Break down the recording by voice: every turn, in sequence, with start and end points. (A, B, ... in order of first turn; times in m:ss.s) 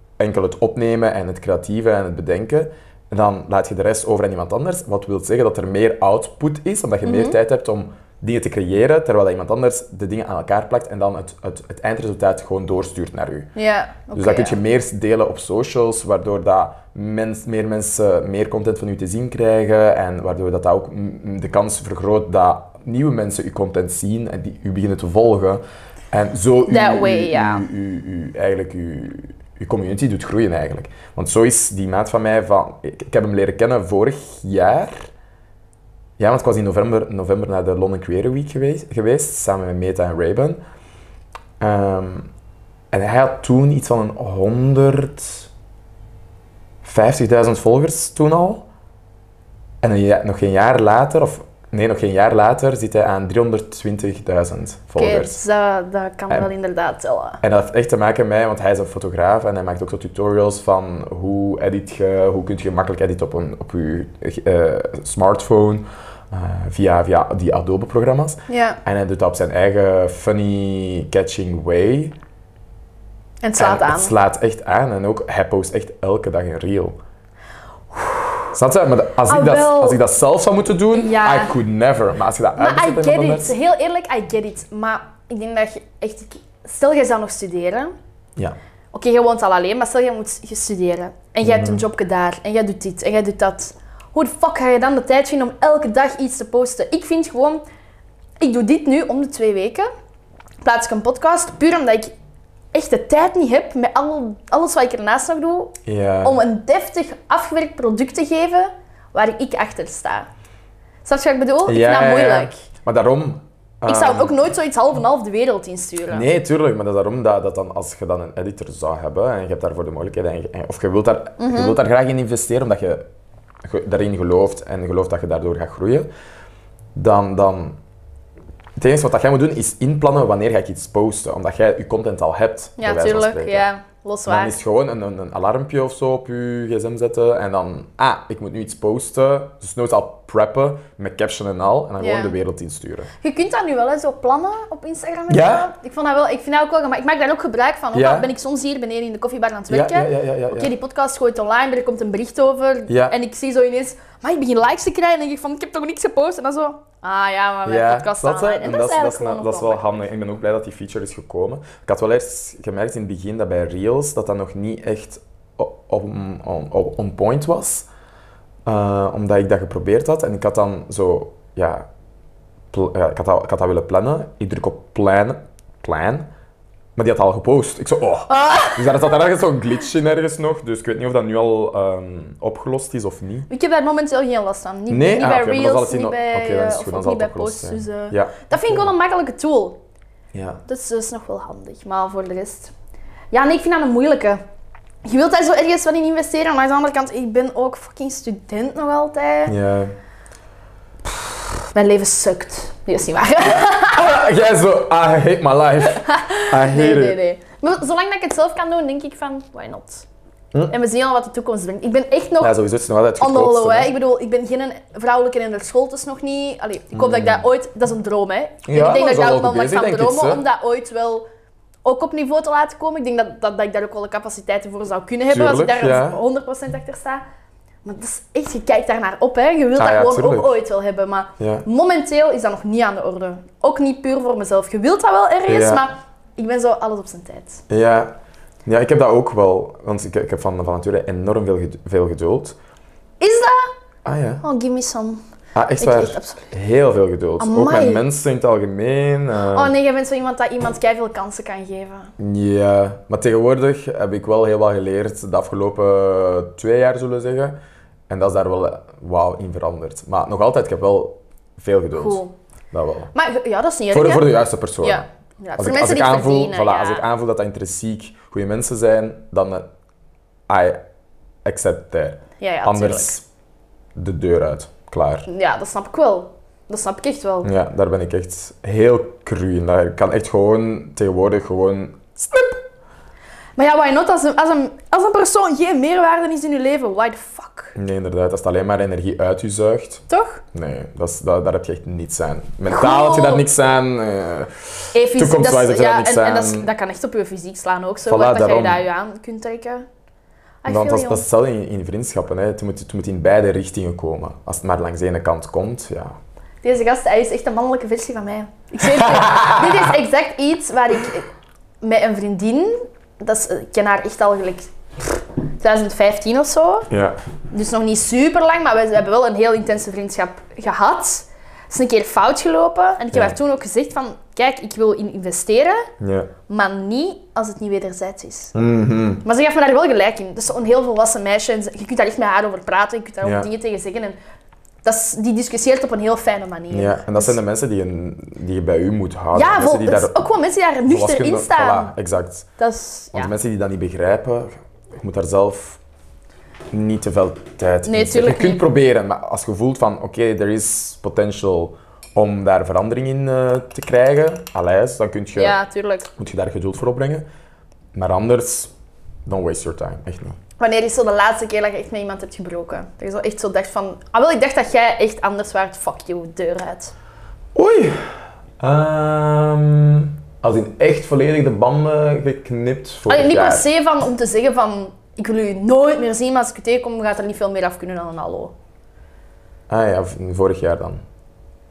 0:00.2-0:13.5 A
0:07.0-0:07.4 B
0:13.6-0:14.6 B
0:14.1-0:35.1 A
0:26.7-0:27.7 B
0:36.2-0:40.6 A
0:41.6-0:42.3 A
0:42.9-0:45.5 A
0:46.8-0:48.6 A
0:49.8-0:55.4 A
0:55.0-0:57.4 B
0:57.4-1:12.2 A
1:08.5-1:08.8 B
1:13.4-1:14.1 B
1:13.6-1:17.0 A
1:18.5-1:23.5 A
1:19.3-1:20.0 B
1:20.9-1:21.5 B
1:22.6-1:27.9 B
1:28.9-1:37.6 B
1:31.4-1:31.8 A
1:38.4-1:39.9 B
1:40.6-1:42.1 B
1:42.7-1:50.3 B
1:45.9-1:46.4 A
1:51.0-1:52.6 B
1:51.7-1:54.5 A
1:53.9-1:56.3 B
1:56.1-2:03.0 A
2:01.4-2:01.8 B
2:03.6-2:06.1 A
2:07.0-2:07.8 A
2:08.8-2:13.7 A
2:12.8-2:14.6 B
2:14.3-2:23.1 A
2:22.0-2:22.4 B
2:23.2-2:39.8 B
2:25.3-2:25.7 A
2:27.9-2:28.3 A
2:29.7-2:30.7 A
2:32.9-2:33.2 A
2:37.7-2:47.9 A
2:48.7-2:51.9 A
2:52.7-2:56.3 A
2:57.0-3:03.5 A
2:58.3-2:59.1 B
3:03.5-3:09.8 B
3:04.9-3:08.9 A
3:10.3-3:10.6 A
3:10.7-3:12.7 B
3:13.3-3:14.4 B
3:15.0-3:19.6 B
3:19.5-3:20.0 A
3:21.7-3:24.2 B
3:23.9-3:27.2 A
3:25.8-3:30.1 B
3:30.7-3:32.6 B
3:32.4-3:33.9 A
3:33.2-3:41.2 B
3:36.9-3:37.4 A
3:38.6-3:40.4 A
3:41.8-3:47.2 B
3:45.3-3:46.2 A
3:47.8-3:57.6 B
3:49.8-3:50.6 A
3:51.4-3:51.7 A
3:55.5-3:55.9 A
3:57.7-3:58.2 A
3:58.7-4:02.6 A
4:03.2-4:03.7 B
4:04.0-4:04.4 A
4:04.4-4:05.2 B
4:05.6-4:09.7 A
4:05.8-4:06.5 B
4:07.4-4:08.0 B
4:09.4-4:12.1 B
4:12.2-4:17.6 A
4:18.1-4:23.1 A
4:21.9-4:22.4 B
4:23.1-4:27.0 B
4:23.9-4:25.0 A
4:25.6-4:29.7 A
4:30.5-4:30.8 A
4:31.4-4:33.2 A
4:32.4-4:33.2 B
4:34.0-4:35.3 A
4:35.3-4:37.5 B
4:37.4-4:42.6 A
4:43.6-4:47.8 B
4:47.8-4:56.7 A
4:50.1-4:50.4 B
4:52.7-4:53.5 B
4:54.9-4:59.9 B
4:58.1-4:58.8 A
5:00.6-5:01.2 B
5:00.7-5:06.2 A
5:06.6-5:11.3 B
5:08.8-5:09.9 A
5:11.8-5:16.9 B
5:16.9-5:17.2 A
5:17.5-5:25.9 B
5:26.0-5:26.3 A
5:26.5-5:28.5 B
5:28.5-5:29.2 A
5:29.2-5:34.2 B
5:33.2-5:33.5 A
5:34.8-5:37.4 B
5:36.7-5:40.2 A
5:39.3-5:41.9 B
5:40.9-5:42.5 A
5:42.6-5:43.3 B
5:43.1-5:45.8 A
5:46.7-5:55.6 A
5:47.8-5:48.6 B
5:55.4-5:56.1 B
5:56.2-5:57.3 A
5:57.9-5:58.7 A
5:59.3-6:00.4 A
6:00.6-6:06.9 B
6:07.6-6:08.0 A
6:08.6-6:13.7 A
6:13.1-6:18.5 B
6:19.7-6:21.0 A